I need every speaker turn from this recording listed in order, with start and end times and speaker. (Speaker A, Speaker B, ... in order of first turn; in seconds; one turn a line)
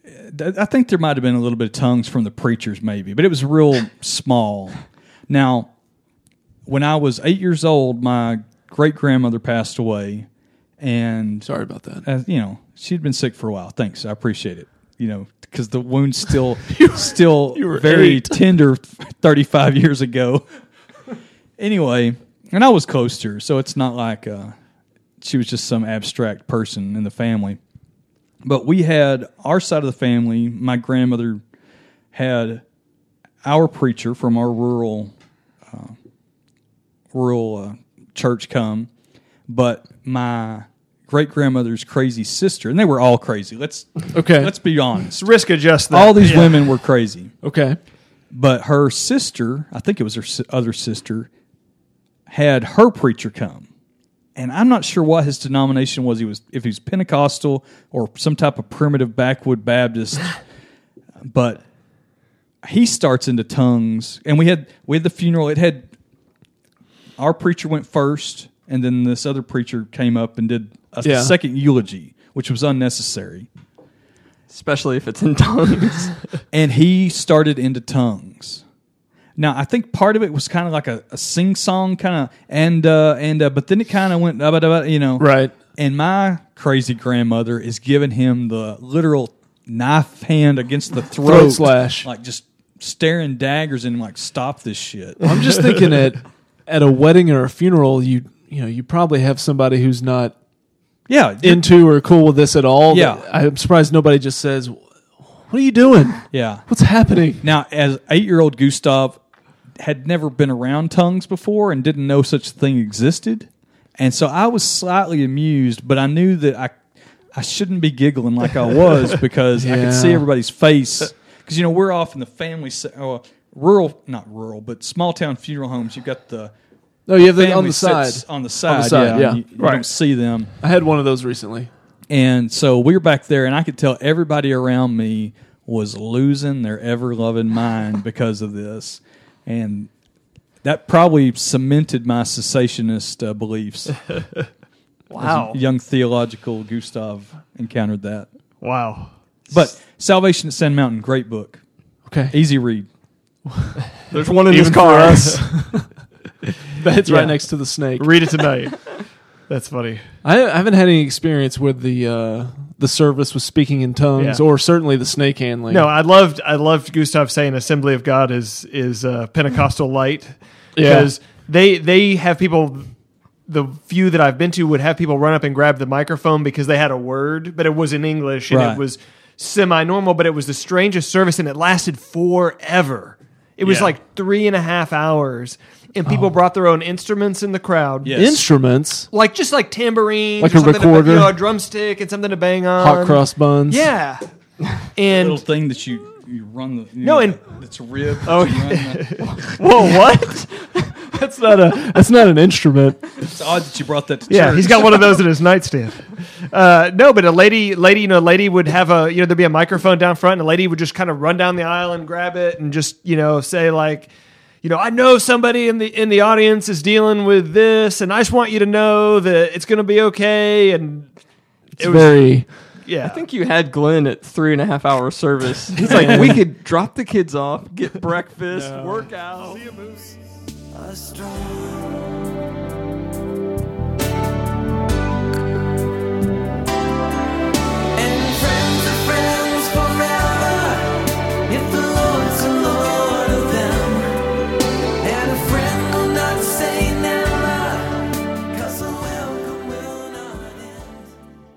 Speaker A: 0.2-5.7
Speaker A: 6.7-10.3
Speaker A: 10.8-11.5
Speaker B: 11.4-12.1
Speaker A: 12.0-20.4
Speaker B: 16.7-18.4
Speaker A: 21.6-24.5
Speaker A: 25.2-27.6
Speaker A: 28.4-31.4
Speaker A: 32.1-32.6
Speaker A: 33.5-35.1
Speaker A: 35.7-36.0
Speaker A: 37.1-38.9
Speaker A: 39.5-45.2
Speaker B: 44.1-44.5
Speaker C: 45.2-46.7
Speaker A: 45.9-47.3
Speaker B: 47.4-47.8
Speaker A: 48.3-51.3
Speaker A: 52.3-53.7
Speaker A: 54.4-60.4
Speaker A: 61.2-61.6
Speaker A: 62.6-65.9
Speaker A: 67.2-73.5
Speaker B: 71.0-71.3
Speaker D: 74.5-76.2
Speaker A: 76.5-78.6
Speaker A: 79.4-95.7
Speaker B: 85.2-85.6
Speaker B: 91.2-92.1
Speaker B: 95.2-100.3
Speaker A: 101.1-101.7
Speaker B: 101.4-104.8
Speaker A: 102.9-103.2
Speaker B: 105.4-107.4
Speaker A: 106.3-106.7
Speaker A: 107.4-109.2
Speaker A: 109.8-113.5
Speaker A: 114.0-116.8
Speaker A: 117.3-126.5
Speaker B: 119.6-120.3
Speaker B: 127.1-129.4
Speaker A: 127.2-130.5
Speaker C: 129.6-129.8
Speaker B: 130.6-131.7
Speaker A: 132.1-139.9
Speaker A: 140.6-144.1
Speaker C: 145.1-145.6
Speaker A: 145.2-148.3
Speaker C: 148.6-149.1
Speaker A: 149.5-151.6
Speaker B: 152.1-152.3
Speaker A: 152.3-152.9
Speaker B: 153.5-153.8
Speaker D: 154.1-155.4
Speaker B: 154.5-155.9
Speaker B: 156.7-158.3
Speaker C: 157.1-157.4
Speaker C: 157.9-158.9
Speaker C: 159.5-160.1
Speaker B: 160.2-165.9
Speaker C: 164.2-164.4
Speaker C: 165.7-172.9
Speaker B: 170.8-171.1
Speaker C: 173.5-188.2
Speaker A: 178.5-178.8
Speaker A: 183.6-183.9
Speaker A: 188.0-188.4
Speaker B: 188.1-189.1
Speaker C: 189.1-194.2
Speaker B: 190.4-191.4
Speaker B: 192.8-193.9
Speaker C: 194.9-195.4
Speaker A: 195.1-199.1
Speaker C: 197.0-197.4
Speaker C: 198.3-199.4
Speaker D: 199.4-201.0
Speaker B: 201.1-203.0
Speaker A: 203.2-205.2
Speaker C: 204.3-214.1
Speaker C: 214.6-221.1
Speaker C: 221.8-222.3
Speaker B: 221.8-222.5
Speaker C: 222.8-223.2
Speaker D: 223.0-229.6
Speaker B: 225.8-226.4
Speaker C: 228.5-230.2
Speaker E: 230.7-232.1
Speaker E: 237.9-244.4
Speaker E: 245.0-251.2